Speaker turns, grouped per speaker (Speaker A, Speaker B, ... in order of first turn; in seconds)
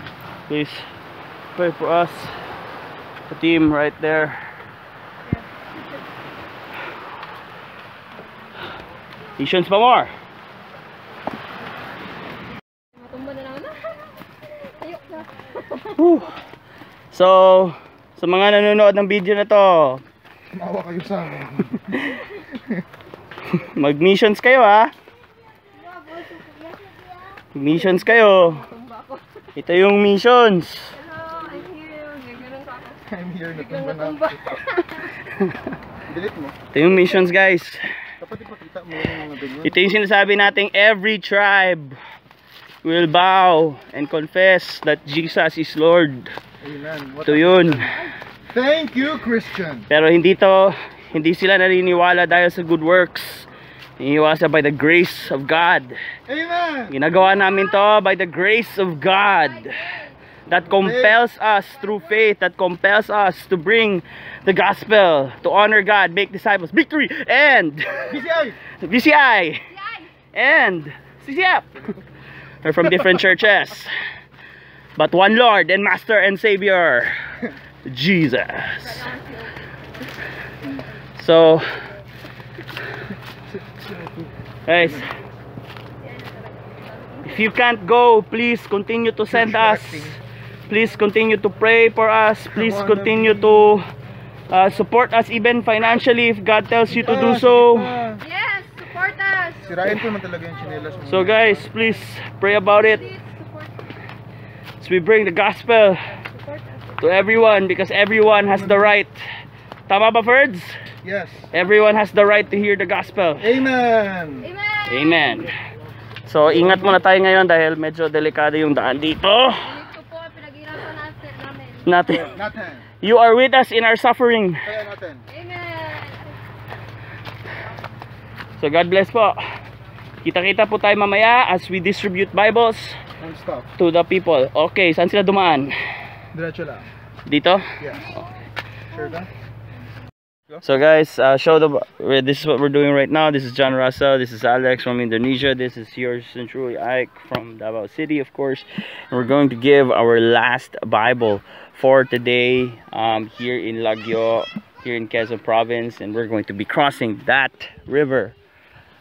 Speaker A: 0.5-0.8, 1.6-2.4, 3.3-4.4, 9.4-10.1, 15.8-16.4, 17.1-20.0, 23.5-24.9, 27.5-28.7, 29.5-30.9, 35.2-35.6, 36.7-37.8, 39.6-42.0, 42.8-46.3, 47.3-48.0, 49.9-53.5, 54.0-56.0, 56.9-68.2, 68.8-69.7, 70.3-71.7, 72.6-73.9, 75.0-77.1, 77.9-79.1, 81.2-81.7, 84.7-85.1, 87.2-90.2, 90.7-93.9, 94.5-97.9, 101.1-103.1, 104.8-106.2, 107.0-109.2, 109.9-110.7, 111.5-113.5, 114.9-115.5, 116.2-119.8, 121.8-122.3, 123.0-124.6, 128.6-129.4, 130.2-133.0, 133.8-135.8, 137.3-137.7, 140.6-158.3
Speaker B: 13.0-14.1, 14.7-15.5, 25.9-27.2, 28.4-29.2, 31.0-33.0, 33.5-35.1, 59.6-60.1, 79.0-79.4, 86.6-87.2, 98.2-99.8, 103.1-103.7, 106.3-106.8, 114.5-114.8, 119.8-121.8, 125.3-126.4
Speaker C: 20.5-22.8, 33.0-34.6, 36.1-36.6, 38.2-39.8, 46.6-49.9, 56.3-56.9, 60.7-61.2, 68.1-68.6, 83.5-85.0, 89.3-90.2, 92.5-93.7, 96.9-98.2, 99.6-101.6, 108.5-108.9, 111.0-111.5, 113.4-114.5, 116.5-116.9, 122.2-122.8, 124.6-125.2, 133.2-133.7, 136.3-136.9, 137.8-138.1, 138.9-139.3